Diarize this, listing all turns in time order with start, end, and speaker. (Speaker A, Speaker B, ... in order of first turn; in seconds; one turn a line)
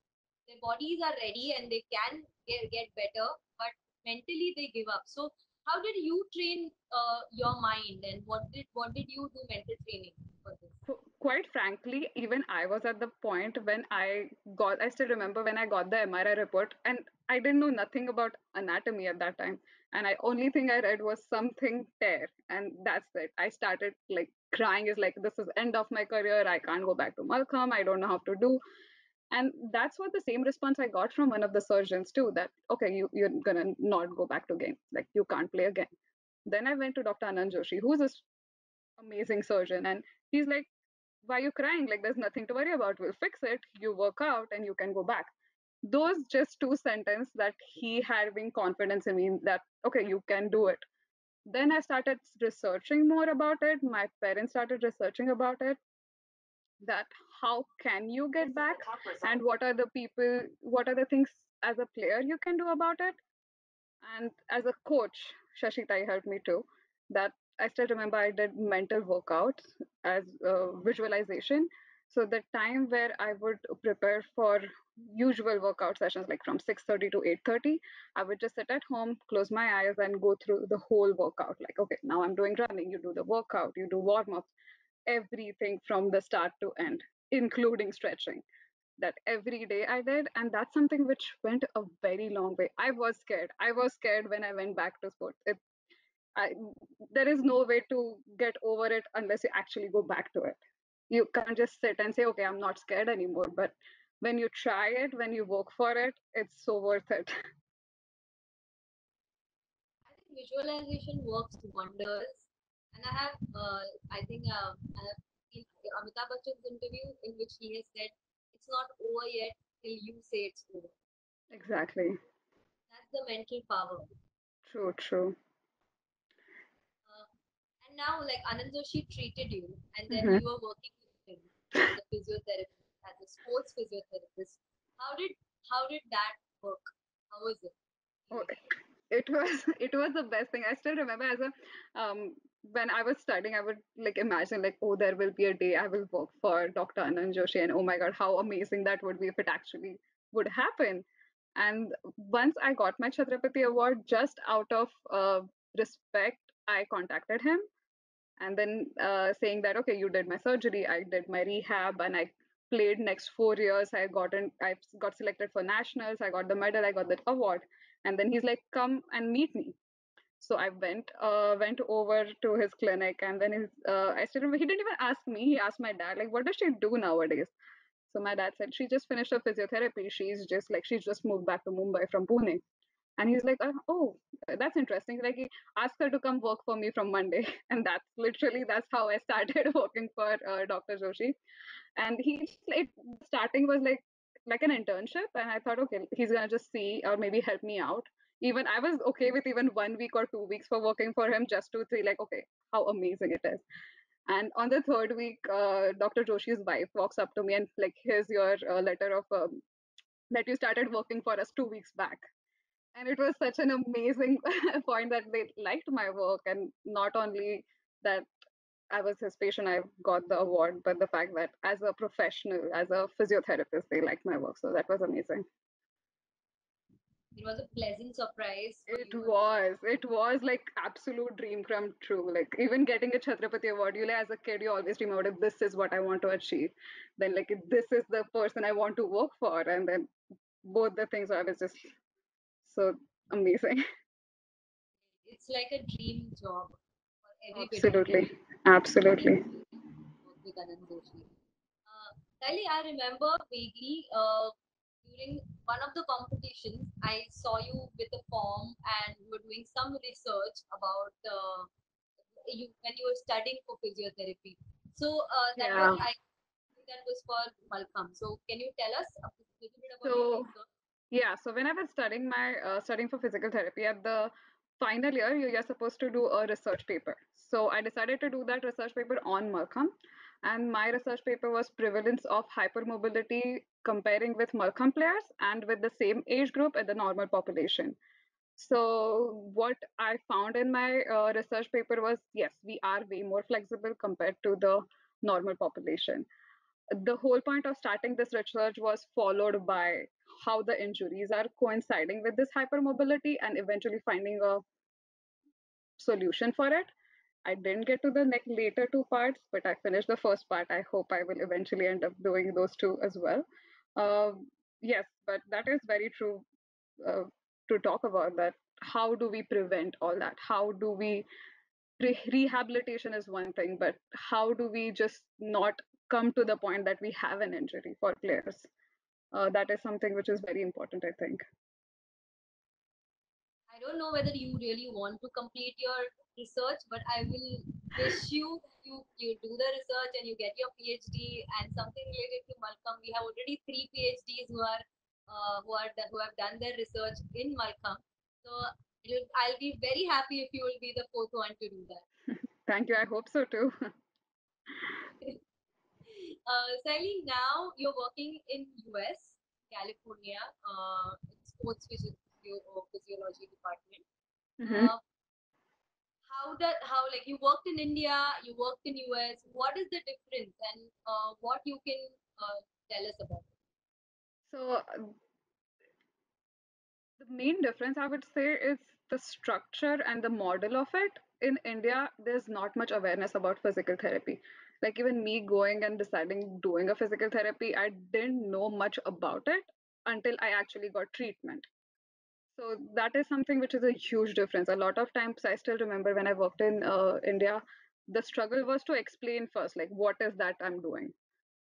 Speaker A: 0.5-10.8
Speaker B: 10.9-28.6
Speaker B: 29.3-35.9
Speaker B: 36.5-38.3
Speaker B: 39.0-40.7
Speaker B: 41.2-45.3
Speaker B: 45.8-50.8
Speaker B: 51.5-55.8
Speaker B: 56.8-63.2
Speaker B: 64.0-84.5
Speaker B: 85.1-88.4
Speaker B: 89.0-95.6
Speaker B: 96.3-100.6
Speaker B: 101.1-107.3
Speaker A: 110.1-120.9
Speaker B: 121.5-122.2
Speaker A: 122.9-124.1
Speaker B: 124.7-125.4
Speaker A: 127.8-137.7
Speaker B: 130.1-130.4
Speaker A: 138.3-138.6
Speaker B: 138.3-151.1
Speaker B: 151.6-157.7
Speaker B: 158.4-169.8
Speaker B: 170.4-177.5
Speaker B: 178.1-182.6
Speaker B: 183.2-191.4
Speaker B: 192.0-203.6
Speaker B: 204.3-209.6
Speaker B: 210.3-212.3
Speaker B: 212.9-218.3
Speaker B: 218.9-225.4
Speaker A: 227.3-229.5
Speaker B: 228.9-240.1
Speaker B: 240.6-241.9
Speaker B: 242.7-243.8
Speaker A: 245.2-248.3
Speaker B: 247.5-249.5
Speaker A: 249.2-251.3
Speaker A: 251.9-261.7
Speaker A: 262.4-266.2
Speaker B: 265.6-266.0
Speaker A: 266.8-270.7
Speaker B: 270.0-270.5
Speaker B: 271.1-288.0
Speaker B: 288.6-296.3
Speaker B: 296.9-304.6
Speaker B: 306.0-306.9
Speaker B: 307.4-313.5
Speaker B: 314.0-316.4
Speaker B: 317.0-321.3
Speaker B: 322.0-328.7
Speaker B: 329.3-331.4
Speaker A: 333.7-352.1
Speaker B: 352.6-353.9
Speaker A: 356.1-364.1
Speaker B: 364.6-364.9
Speaker A: 364.6-365.0
Speaker A: 366.3-373.5
Speaker B: 374.5-375.1
Speaker B: 377.2-391.7
Speaker B: 392.6-401.1